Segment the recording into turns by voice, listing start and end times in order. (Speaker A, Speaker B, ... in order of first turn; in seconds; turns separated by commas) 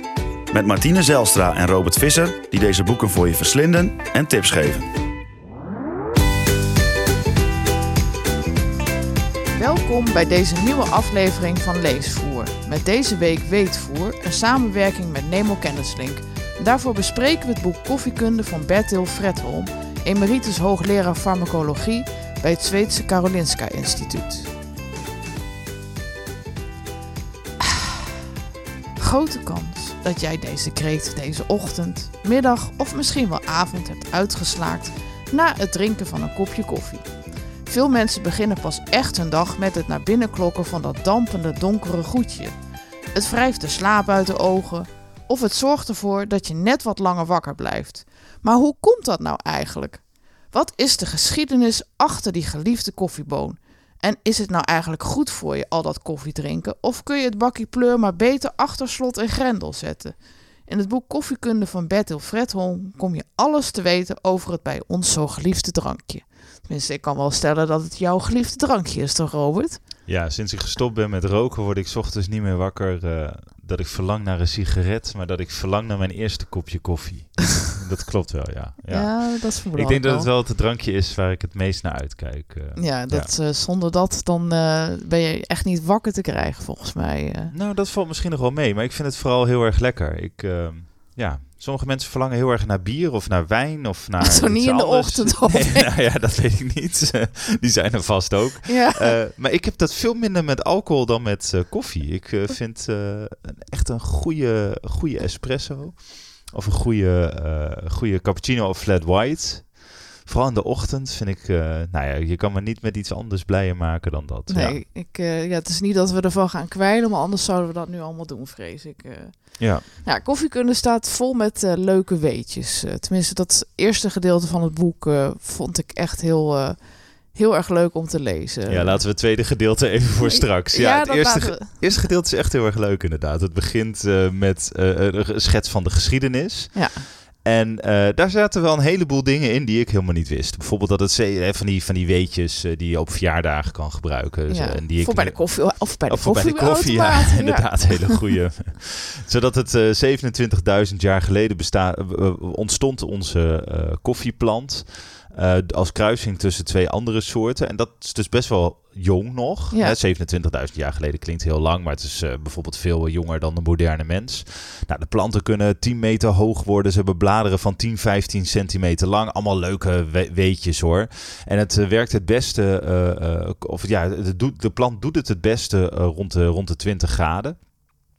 Speaker A: 0.5-4.9, Speaker B: 9.5-24.5, Speaker B: 29.0-37.1, Speaker B: 37.6-42.5, Speaker B: 43.1-69.8, Speaker C: 70.0-83.3, Speaker B: 78.9-80.3, Speaker B: 82.7-87.5, Speaker C: 87.5-114.8, Speaker B: 94.2-95.9, Speaker B: 98.7-99.1, Speaker B: 114.5-129.1, Speaker C: 119.6-119.9, Speaker C: 128.7-177.7, Speaker B: 130.2-131.7, Speaker B: 136.7-137.1, Speaker B: 144.5-148.2, Speaker B: 159.7-159.9